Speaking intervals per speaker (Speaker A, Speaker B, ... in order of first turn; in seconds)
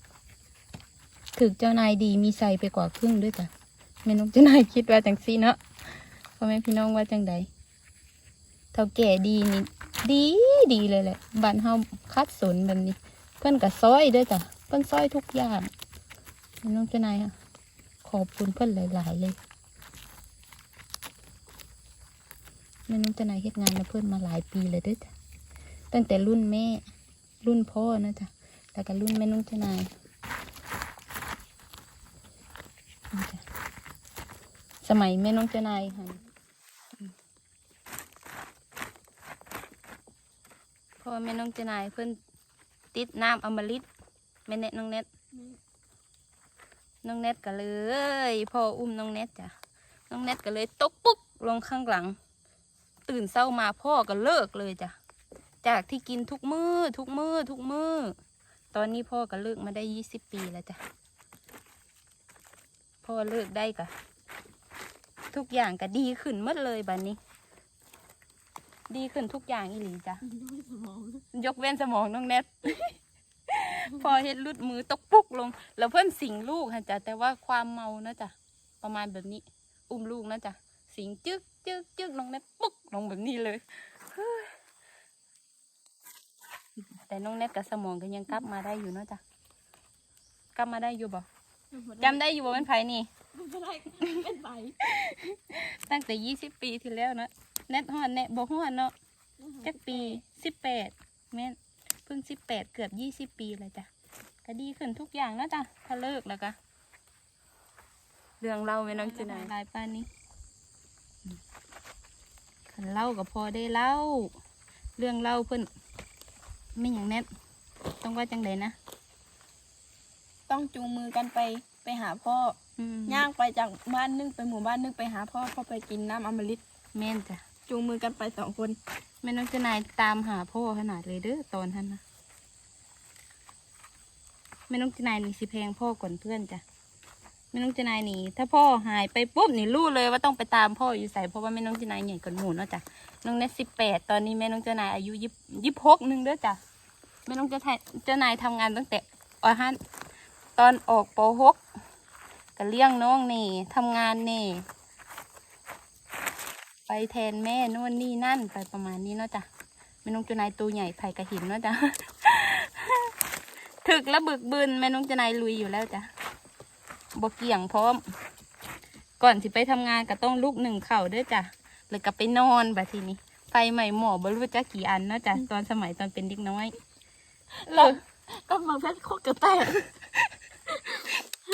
Speaker A: 1.4-3.5, 4.0-5.6, 6.4-7.5, 8.7-15.7, 16.6-17.3, 18.0-19.4, 22.9-25.1, 25.9-26.8, 27.4-29.9, 33.1-33.4, 34.8-36.2, 41.0-42.2, 42.9-43.9, 44.5-45.1, 47.0-49.5, 50.1-52.2, 53.1-54.9, 55.6-58.1, 58.7-60.8, 63.0-63.9, 65.3-67.2, 68.9-70.2, 71.3-73.0, 73.5-84.5, 87.0-89.2, 90.5-91.3, 92.0-93.1, 94.8-98.9, 99.6-103.9, 104.5-106.6, 108.4-110.1, 112.7-114.3, 115.0-115.7, 116.8-117.3, 118.0-118.8, 122.8-123.3, 126.9-127.4, 129.2-132.0, 134.7-136.6, 137.5-146.6, 147.3-149.8, 150.6-151.6, 152.6-154.7, 156.9-159.5, 160.0-163.1, 163.8-166.1, 167.2-168.0, 169.2-176.7, 177.7-178.0
Speaker B: 70.2-71.2, 91.7-92.6, 93.3-94.8, 99.4-100.2, 108.9-109.5, 120.5-126.6, 127.7-128.8, 177.7-179.8